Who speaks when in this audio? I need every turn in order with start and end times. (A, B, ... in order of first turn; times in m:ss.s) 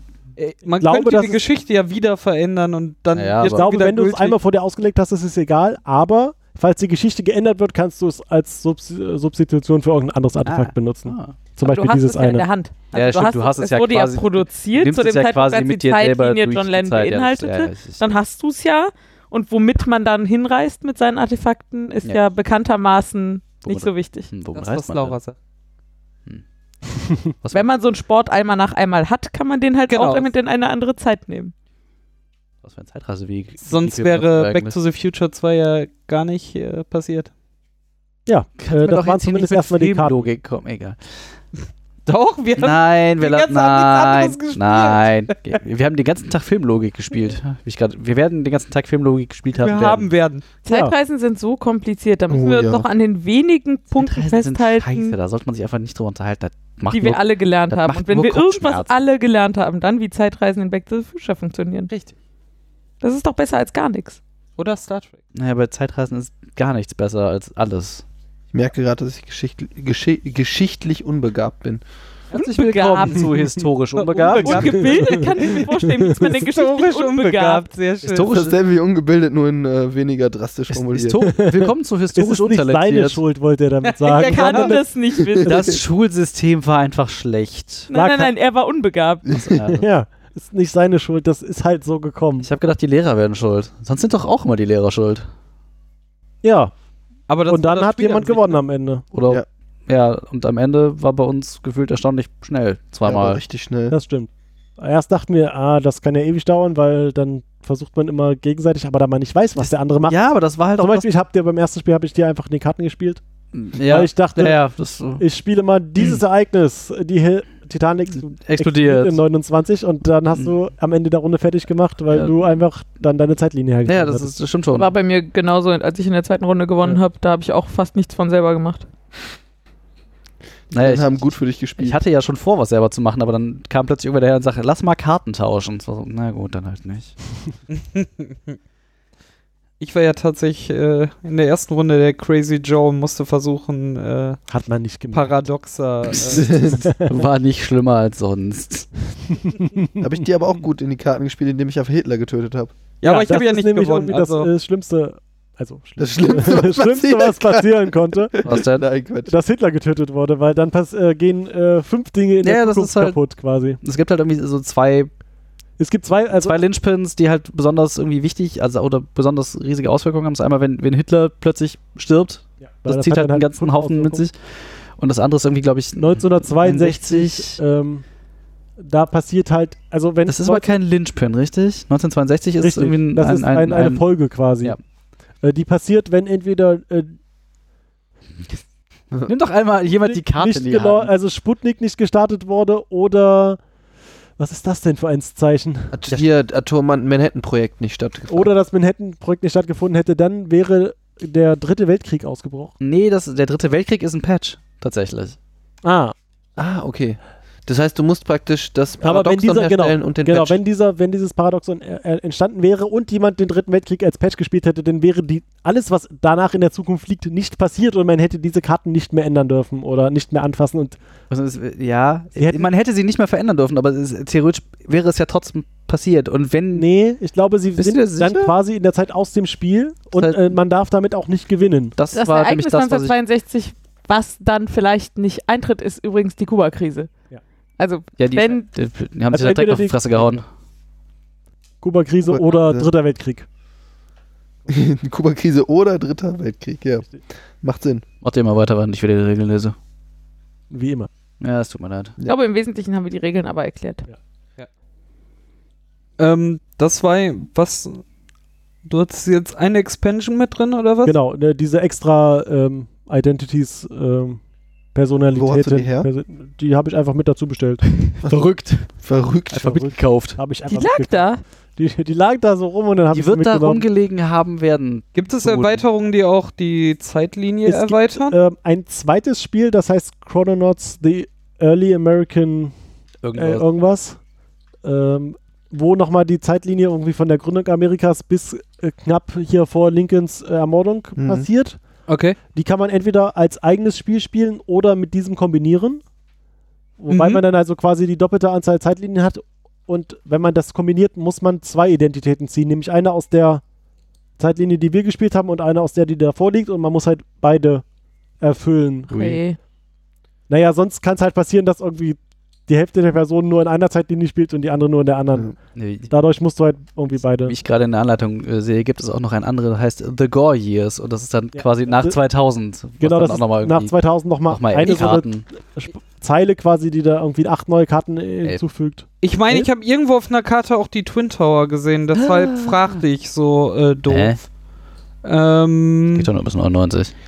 0:00.4-0:04.4 A
0:00.8-0:01.4 B
0:03.1-0:03.7 C
0:03.4-0:12.4 B
0:10.4-0:11.4 C
0:11.6-0:24.3 D
0:12.9-0:18.0 C
0:23.6-0:25.2 C
0:24.5-0:25.4 A
0:27.4-0:27.6 C
0:27.5-0:31.5 D
0:29.9-0:30.3 A
0:32.6-0:34.8 C
0:33.6-0:37.3 A
0:38.2-0:40.3 B
0:38.6-0:41.0 C
0:42.1-0:45.6 A
0:42.6-0:50.1 C
0:49.6-0:50.4 A
0:50.6-0:55.1 D
0:50.7-0:50.9 B
0:52.3-0:52.9 E
0:53.9-0:58.9 C
0:56.9-1:01.9 D
1:03.0-1:04.2 D
1:04.6-1:05.2 A
1:05.3-1:08.0 C
1:08.5-1:11.8 E
1:12.3-1:15.0 C
1:12.4-1:13.5 D
1:14.0-1:15.6 A
1:14.3-1:17.7 D
1:14.5-1:16.3 B
1:16.4-1:18.4 A
1:18.0-1:18.6 C
1:18.1-1:21.2 E
1:20.7-1:23.2 C
1:21.2-1:24.9 B
1:23.9-1:24.7 A
1:24.2-1:25.8 D
1:25.2-1:25.7 E
1:25.4-1:27.9 C
1:27.9-1:29.4 D
1:27.9-1:28.3 B
1:29.4-1:29.8 C
1:29.7-1:32.5 B
1:32.4-1:35.3 C
1:36.4-1:36.7 B
1:37.3-1:38.6 A
1:37.5-1:39.0 B
1:39.1-1:43.4 C
1:43.0-1:43.9 E
1:43.9-1:50.2 B
1:49.6-1:51.1 C
1:50.8-1:53.2 B
1:53.5-1:55.2 C
1:53.8-1:54.6 B
1:55.2-2:04.3 B
1:58.4-1:59.2 C
2:03.9-2:04.9 C
2:04.7-2:08.9 D
2:10.7-2:17.2 C
2:10.7-2:12.0 E
2:17.8-2:18.5 A
2:19.8-2:24.4 A
2:24.5-2:25.3 B
2:25.1-2:26.5 A
2:26.2-2:26.9 E
2:26.4-2:29.0 C
2:26.7-2:27.1 B
2:29.4-2:30.0 B
2:30.0-2:32.7 E
2:33.0-2:34.5 A
2:33.0-2:38.4 B
2:36.0-2:39.3 E
2:38.4-2:38.8 C
2:39.2-2:43.8 B
2:42.4-2:43.2 C
2:43.8-2:45.1 C
2:45.8-2:46.6 B
2:46.3-2:54.4 C
2:52.8-2:54.2 B
2:55.0-2:57.6 C
2:56.0-2:58.0 B
2:58.8-3:00.7 B
3:00.3-3:04.0 C
3:02.6-3:04.8 B
3:05.4-3:07.2 B
3:09.2-3:11.1 C
3:09.9-3:13.6 B
3:14.4-3:16.0 B
3:15.9-3:18.5 E
3:18.3-3:22.7 B
3:22.8-3:25.4 C
3:25.8-3:26.1 B
3:26.6-3:30.6 E
3:29.0-3:41.0 B
3:41.3-3:46.9 C
3:42.4-3:42.7 B
3:46.7-3:52.0 B
3:47.8-3:48.6 C
3:50.2-3:50.5 C
3:52.0-3:53.1 C
3:52.1-3:57.1 D
3:57.8-3:58.6 D
3:58.2-4:00.4 C
3:59.3-4:00.4 B
4:01.8-4:03.5 B
4:02.3-4:02.9 E
4:04.7-4:07.1 E
4:07.6-4:08.0 E
4:08.2-4:09.8 C
4:10.7-4:11.1 B
4:11.4-4:12.1 C
4:12.2-4:14.1 D
4:16.2-4:18.0 A
4:18.8-4:21.1 A
4:21.0-4:24.4 B
4:24.9-4:27.8 B
4:25.4-4:26.1 E
4:28.0-4:28.9 C
4:29.0-4:29.9 E
4:29.5-4:30.4 C
4:29.7-4:31.2 B
4:30.7-4:31.4 D
4:31.8-4:33.8 B
4:33.1-4:35.8 C
4:35.1-4:38.4 A
4:37.6-4:42.7 B
4:43.2-4:43.6 C
4:43.4-4:44.2 B
4:44.8-4:51.8 B
4:51.2-4:51.5 E
4:52.1-4:52.4 C
4:52.5-4:56.0 B
4:57.0-5:03.6 B
4:57.1-4:57.4 A
5:04.4-5:07.8 B
5:08.4-5:09.1 B
5:09.1-5:09.6 D
5:10.5-5:15.6 B
5:15.7-5:16.1 C
5:16.1-5:17.6 B
5:17.4-5:23.9 C
5:21.6-5:22.2 B
5:23.0-5:29.7 B
5:24.5-5:25.4 C
5:29.2-5:34.4 A
5:32.1-5:33.0 C
5:34.1-5:34.4 C
5:35.2-5:36.3 A
5:36.1-5:37.1 C